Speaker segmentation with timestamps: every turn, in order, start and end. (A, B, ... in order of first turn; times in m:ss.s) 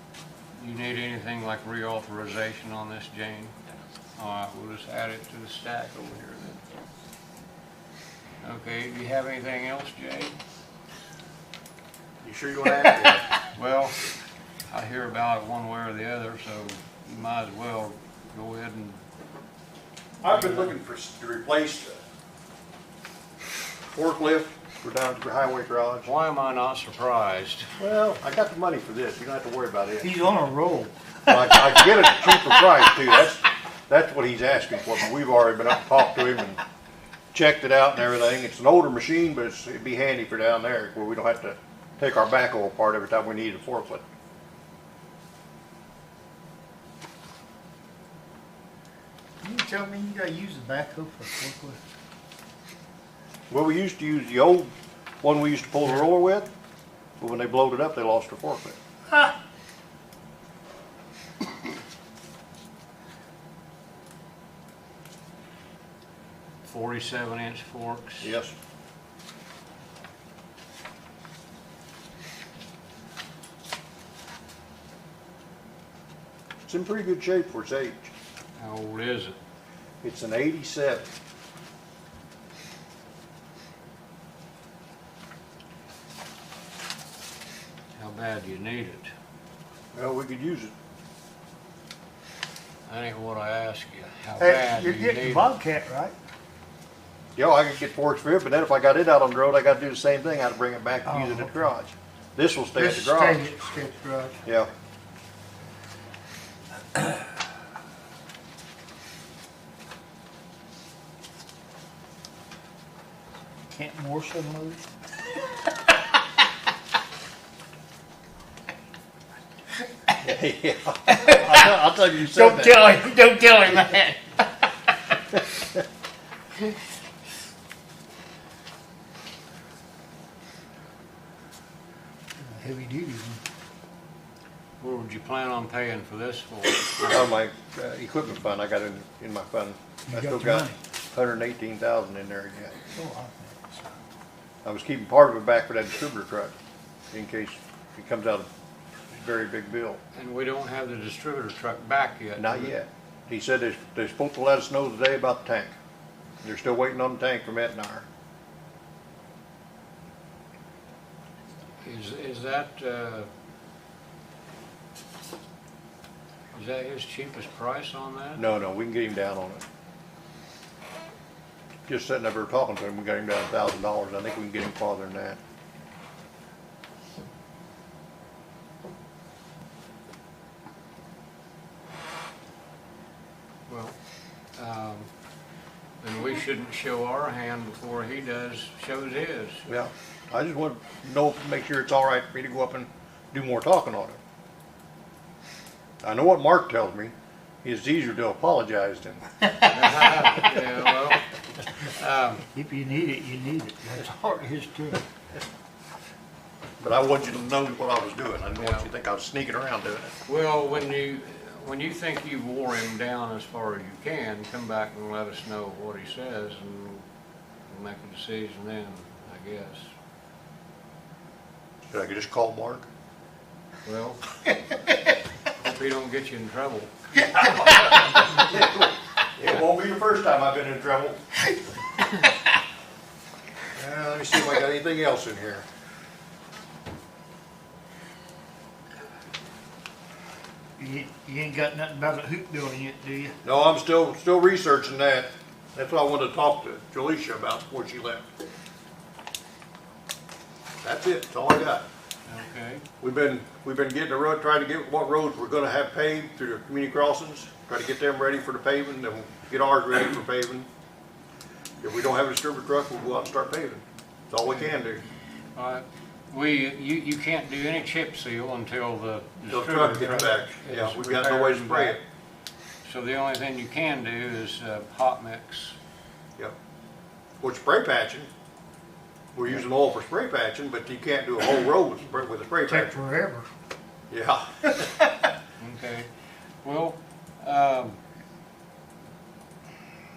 0:00.5-0:03.6 A
0:04.2-0:06.6 A
0:08.4-0:10.3 A
0:12.2-0:13.3 B
0:13.5-0:14.0 A
0:14.7-0:19.0 A
0:20.2-0:22.0 B
0:20.3-0:20.7 A
0:23.9-0:26.1 B
0:26.0-0:27.7 A
0:27.8-0:30.1 B
0:30.0-0:31.3 C
0:31.3-0:36.6 B
0:37.3-0:44.0 B
0:49.4-0:51.8 C
0:53.5-0:54.7 B
0:55.2-0:56.5 B
0:57.2-0:58.8 B
1:06.6-1:08.3 A
1:08.2-1:08.6 B
1:16.7-1:18.1 B
1:18.6-1:19.4 A
1:20.0-1:21.1 B
1:28.0-1:29.1 A
1:29.9-1:30.7 B
1:32.9-1:35.5 A
1:34.4-1:36.1 C
1:37.4-1:43.4 B
1:41.0-1:41.7 C
1:42.8-1:44.4 C
1:44.4-1:44.7 B
1:53.7-1:54.8 C
2:00.2-2:03.0 B
2:01.1-2:04.5 C
2:12.4-2:13.4 C
2:14.8-2:17.2 A
2:17.0-2:22.8 B
2:20.1-2:20.8 C
2:22.9-2:23.9 C
2:24.6-2:26.5 B
2:27.1-2:28.5 B
2:29.1-2:30.0 B
2:30.2-2:32.7 A
2:32.4-2:35.7 B
2:36.4-2:38.1 B
2:41.8-2:43.3 A
2:46.5-2:48.4 A
2:48.4-2:49.6 B
2:51.9-2:55.4 B
3:03.7-3:04.0 A
3:04.6-3:05.1 A
3:06.0-3:09.7 A
3:09.7-3:14.2 B
3:16.0-3:19.4 B
3:19.7-3:22.5 A
3:22.5-3:25.0 C
3:26.8-3:30.1 B
3:28.6-3:28.9 A
3:30.3-3:37.0 A
3:37.7-3:39.9 A
3:41.9-3:42.9 B
3:43.8-3:44.2 A
3:45.5-3:47.7 A
3:47.4-3:51.2 B
3:53.7-3:55.6 B
4:00.8-4:03.4 C
4:03.4-4:08.3 B
4:10.8-4:11.9 B
4:12.3-4:12.8 A
4:13.0-4:20.7 B
4:21.8-4:25.0 B
4:25.6-4:32.0 A
4:29.5-4:32.0 B
4:32.8-4:35.8 A
4:37.4-4:38.3 B
4:39.4-4:42.9 B
4:42.7-4:43.5 C
4:44.1-4:44.9 B
4:45.6-4:46.1 A
4:46.6-4:48.0 A